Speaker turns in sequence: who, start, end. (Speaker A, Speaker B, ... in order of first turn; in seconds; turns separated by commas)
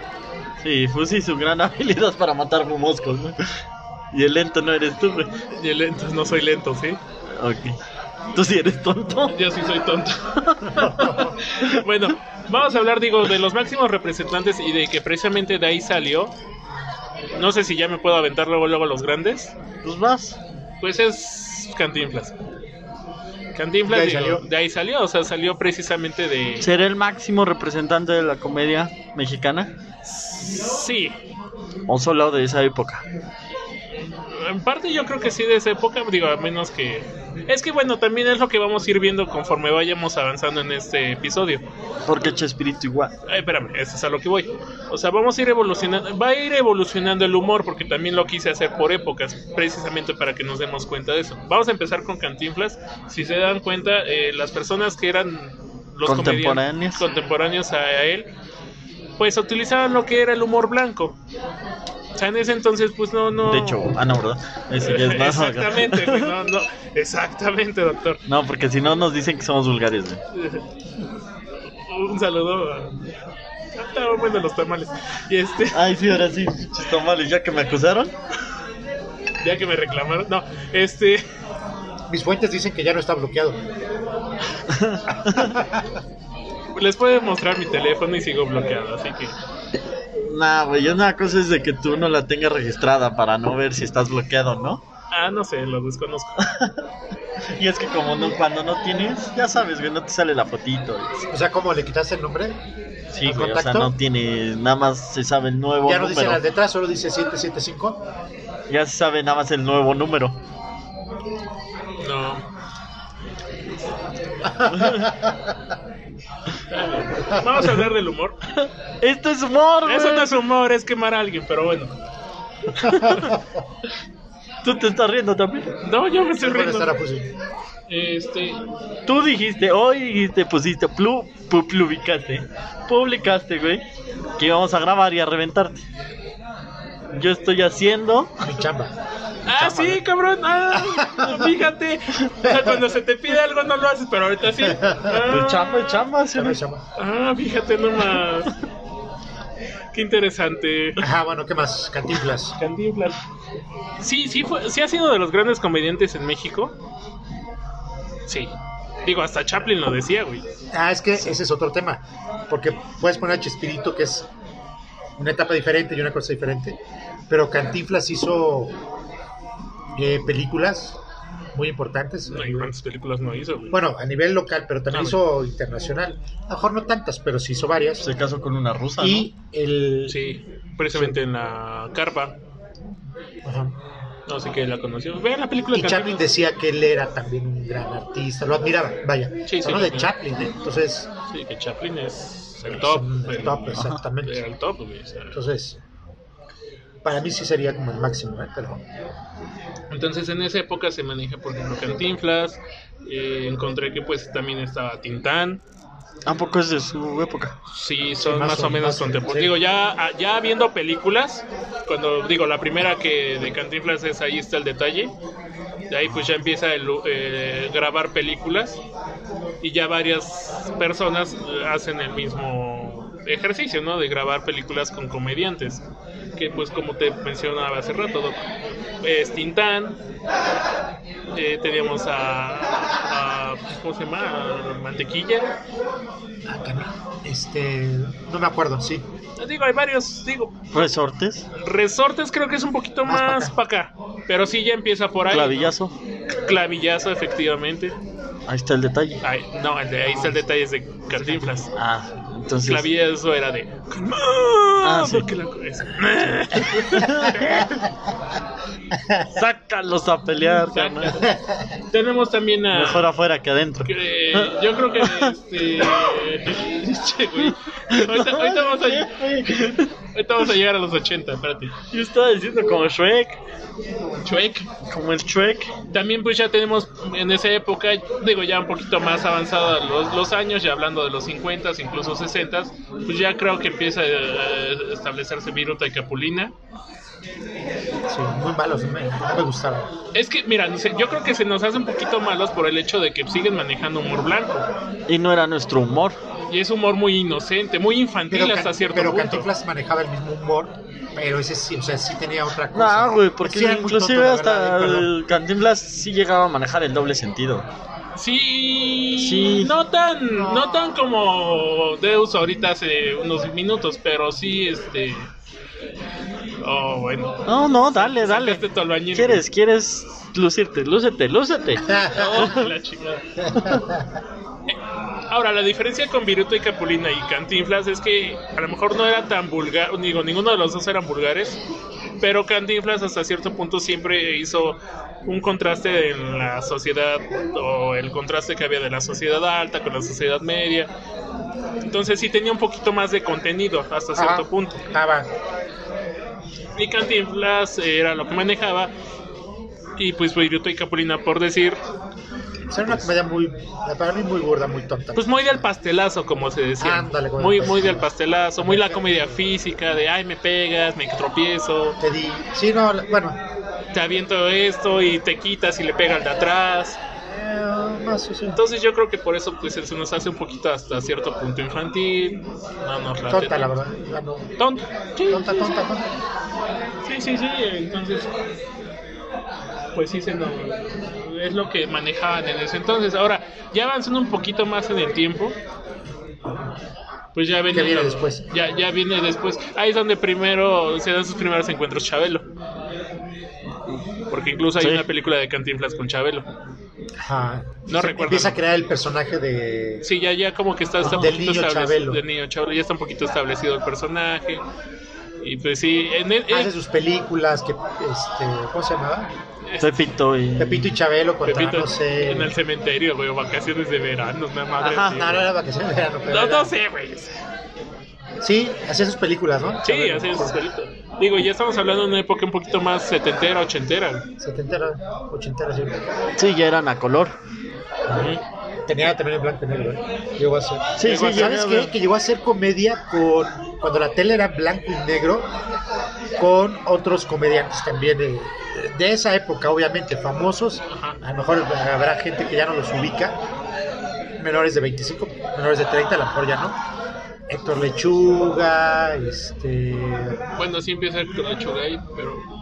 Speaker A: 0.6-3.4, Speaker A: 4.1-5.3, Speaker B: 5.6-7.0, Speaker A: 7.3-7.8, Speaker A: 8.3-9.3, Speaker B: 9.3-16.3, Speaker A: 10.5-10.8, Speaker C: 10.8-11.3, Speaker B: 17.4-19.5, Speaker A: 19.8-20.4, Speaker B: 20.8-22.4, Speaker B: 23.5-26.7, Speaker C: 23.9-24.4, Speaker A: 26.6-29.7, Speaker B: 30.1-31.2, Speaker A: 31.9-33.0, Speaker B: 34.2-41.6, Speaker A: 42.0-43.1, Speaker B: 43.3-58.3, Speaker A: 56.0-57.0, Speaker B: 59.2-61.2, Speaker B: 62.2-63.9, Speaker A: 63.4-66.3, Speaker B: 64.8-68.2, Speaker A: 68.3-70.2, Speaker B: 70.3-70.7, Speaker B: 71.8-72.9, Speaker B: 73.8-75.9, Speaker A: 75.7-78.1, Speaker B: 79.4-81.2, Speaker C: 82.1-83.6, Speaker A: 84.7-85.5, Speaker C: 85.2-85.9, Speaker B: 86.7-89.3, Speaker A: 90.2-94.8, Speaker B: 95.1-96.4, Speaker A: 96.4-96.8, Speaker A: 97.5-101.3, Speaker C: 101.3-102.6, Speaker A: 103.1-106.4, Speaker C: 103.2-103.9, Speaker C: 105.8-108.0, Speaker A: 108.7-110.4, Speaker B: 112.0-112.4, Speaker C: 114.6-115.2, Speaker A: 114.7-115.0, Speaker B: 116.7-118.4, Speaker C: 117.3-117.6, Speaker A: 119.0-120.3, Speaker B: 119.9-122.0, Speaker B: 122.9-123.3, Speaker A: 122.9-123.2, Speaker C: 122.9-123.4, Speaker A: 124.6-125.7, Speaker B: 125.8-126.9, Speaker C: 126.4-127.3, Speaker B: 127.9-128.6, Speaker A: 129.1-133.8, Speaker A: 134.4-135.8, Speaker A: 137.1-138.4, Speaker C: 138.4-138.9, Speaker B: 139.4-145.6, Speaker A: 139.5-140.0, Speaker C: 141.0-141.5, Speaker C: 142.4-142.9, Speaker C: 144.6-145.4, Speaker A: 145.3-146.6, Speaker C: 146.3-146.8, Speaker B: 147.0-148.5, Speaker B: 149.9-151.0, Speaker C: 151.0-152.6, Speaker B: 152.6-153.2, Speaker B: 154.0-156.7, Speaker B: 158.3-158.5, Speaker B: 159.1-160.4, Speaker C: 160.7-164.3, Speaker C: 165.2-166.8, Speaker C: 167.3-168.7, Speaker C: 169.9-171.0, Speaker C: 171.5-172.7, Speaker B: 172.3-173.8, Speaker C: 173.7-178.1, Speaker B: 174.9-175.2, Speaker A: 178.0-179.3, Speaker C: 179.0-180.2, Speaker B: 180.1-182.3, Speaker C: 183.4-183.8, Speaker B: 184.3-186.3, Speaker C: 185.7-191.1, Speaker B: 189.5-190.1, Speaker B: 191.3-193.7, Speaker C: 192.7-194.4, Speaker A: 193.8-194.0, Speaker B: 194.2-195.4, Speaker C: 195.3-195.8, Speaker C: 197.0-198.8, Speaker B: 199.9-205.6, Speaker A: 206.2-207.6, Speaker B: 207.7-215.1, Speaker C: 208.2-209.5, Speaker B: 215.9-218.8, Speaker B: 219.6-225.8, Speaker B: 226.3-228.4, Speaker B: 229.0-230.0, Speaker B: 231.3-235.5, Speaker C: 236.5-239.0, Speaker B: 239.4-240.9, Speaker A: 240.7-241.4, Speaker B: 241.5-245.7, Speaker C: 243.1-243.5, Speaker A: 245.3-245.9, Speaker B: 246.4-247.9, Speaker A: 248.5-249.2, Speaker B: 249.2-251.7, Speaker C: 250.1-250.4, Speaker C: 251.2-251.6, Speaker A: 251.7-252.9, Speaker B: 252.7-257.9, Speaker A: 254.8-255.3, Speaker A: 256.9-257.4, Speaker A: 259.3-261.2, Speaker B: 260.6-261.2, Speaker C: 261.2-261.6, Speaker B: 261.9-263.1, Speaker A: 262.7-266.1, Speaker B: 263.8-269.1, Speaker A: 267.4-269.9, Speaker B: 270.1-271.7, Speaker A: 271.9-273.4, Speaker B: 274.2-274.7, Speaker A: 274.9-275.7, Speaker B: 275.9-286.5, Speaker C: 288.1-289.9, Speaker B: 290.1-294.7, Speaker A: 295.1-296.2, Speaker B: 296.5-299.5, Speaker C: 298.3-305.1, Speaker A: 302.7-307.7, Speaker B: 308.1-315.3, Speaker A: 309.2-309.7, Speaker C: 310.4-310.9, Speaker B: 316.6-319.4, Speaker A: 317.4-322.7, Speaker C: 321.9-322.6, Speaker B: 322.1-323.2, Speaker C: 323.4-324.1, Speaker B: 325.3-331.6, Speaker B: 332.2-340.9, Speaker B: 341.9-344.8, Speaker C: 344.1-345.3, Speaker B: 346.8-348.9, Speaker B: 350.0-351.8, Speaker C: 352.7-355.6, Speaker B: 355.1-362.0, Speaker C: 356.8-358.1, Speaker C: 358.6-359.4, Speaker C: 362.0-363.4, Speaker B: 363.9-367.0, Speaker C: 367.3-368.6, Speaker B: 368.5-373.8, Speaker C: 373.3-374.5, Speaker B: 374.6-375.8, Speaker C: 375.3-376.1, Speaker B: 377.1-378.3, Speaker B: 379.9-385.6, Speaker B: 387.3-392.4, Speaker C: 387.7-388.4, Speaker B: 394.3-396.5, Speaker A: 394.8-395.0, Speaker C: 397.2-400.0, Speaker B: 397.9-398.6, Speaker B: 400.0-404.6, Speaker A: 401.0-401.3, Speaker C: 401.0-402.2, Speaker B: 405.4-406.7, Speaker C: 406.5-409.3, Speaker B: 409.6-409.9, Speaker A: 409.8-410.9, Speaker C: 410.6-412.5, Speaker B: 411.4-415.4, Speaker A: 414.8-415.2, Speaker C: 415.0-416.7, Speaker B: 416.3-417.3, Speaker C: 418.4-420.6, Speaker B: 419.8-424.2, Speaker C: 424.4-426.0, Speaker A: 426.4-427.4, Speaker B: 428.1-428.4, Speaker C: 428.9-435.5, Speaker A: 431.0-431.9, Speaker B: 431.0-431.5, Speaker C: 436.4-443.4, Speaker B: 440.9-441.2, Speaker C: 444.4-446.8, Speaker C: 447.5-450.4, Speaker B: 450.6-452.4